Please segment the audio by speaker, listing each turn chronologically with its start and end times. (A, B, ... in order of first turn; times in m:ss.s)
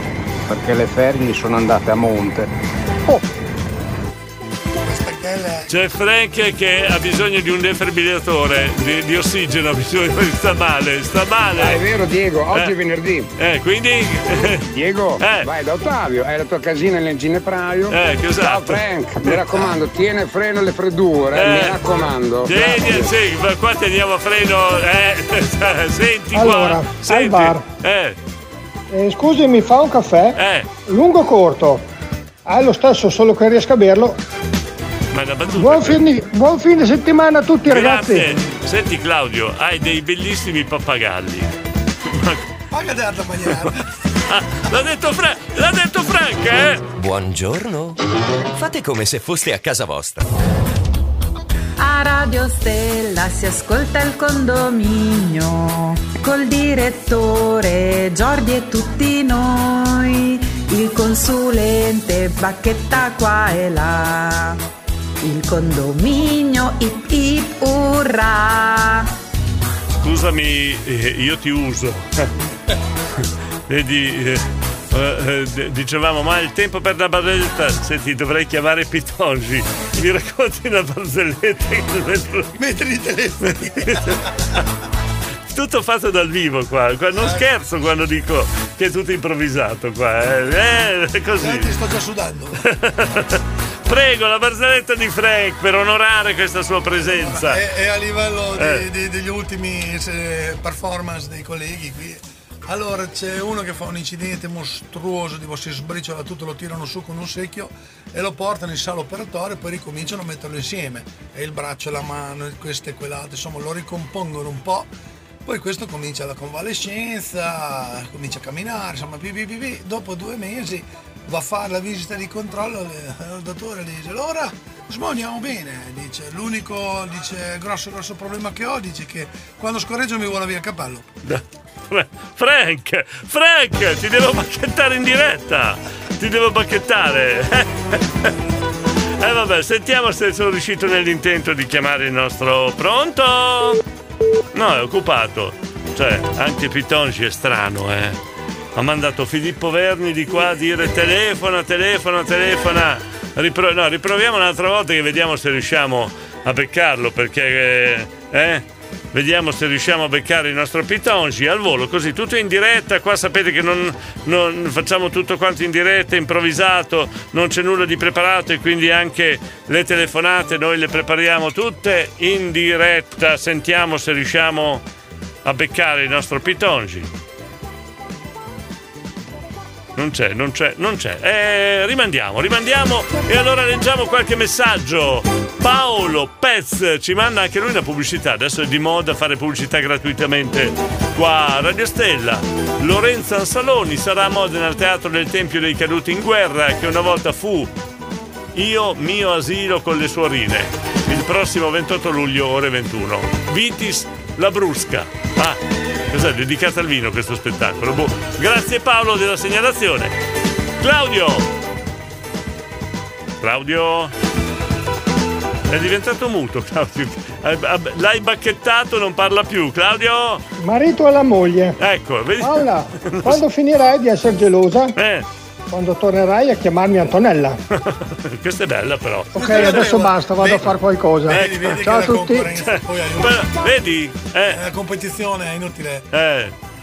0:00.5-0:02.5 A
0:04.8-0:05.7 B
0:05.7-0:11.8 C
0:11.6-0:13.3 D
0:13.4-0:14.6 C
0:14.7-0:23.1 D
0:15.2-0:15.5 C
0:17.9-0:19.8 C
0:21.3-0:21.8 C
0:22.4-0:28.2 C
0:26.3-0:27.6 E
0:28.9-0:31.8 E
0:30.4-0:30.7 C
0:32.4-0:34.2 E
0:35.1-0:36.0 C
0:35.5-0:38.3 E
0:37.7-0:41.5 C
0:42.1-0:42.4 C
0:42.7-0:43.8 B
0:44.3-0:46.9 C
0:47.0-0:48.0 F
0:48.6-0:50.2 F
0:51.8-1:04.6 G
1:05.2-1:09.1 G
1:10.0-1:12.3 C
1:13.7-1:22.6 C
1:22.6-1:24.2 B
1:23.5-1:24.1 C
1:25.5-1:31.7 C
1:31.4-1:32.6 B
1:32.6-1:37.6 C
1:37.1-1:54.9 B
1:38.6-1:38.8 C
1:55.4-2:11.1 B
2:11.2-2:18.3 C
2:19.2-2:23.8 C
2:24.5-2:28.2 C
2:28.8-2:54.8 C
2:55.4-2:57.1 C
3:00.0-3:17.7 C
3:18.5-3:25.6 C
3:26.1-3:30.1 C
3:30.8-3:31.5 C
3:33.4-3:34.1 C
3:35.7-3:40.4 C
3:40.6-3:41.8 E
3:41.8-3:43.4 C
3:42.4-3:45.0 E
3:45.0-3:45.2 C
3:45.7-3:47.6 E
3:47.8-3:49.8 C
3:49.3-3:52.5 E
3:49.4-3:50.7 B
3:51.3-3:53.4 B
3:51.3-3:51.7 C
3:53.2-3:54.6 C
3:54.5-3:56.1 B
3:56.1-3:56.5 C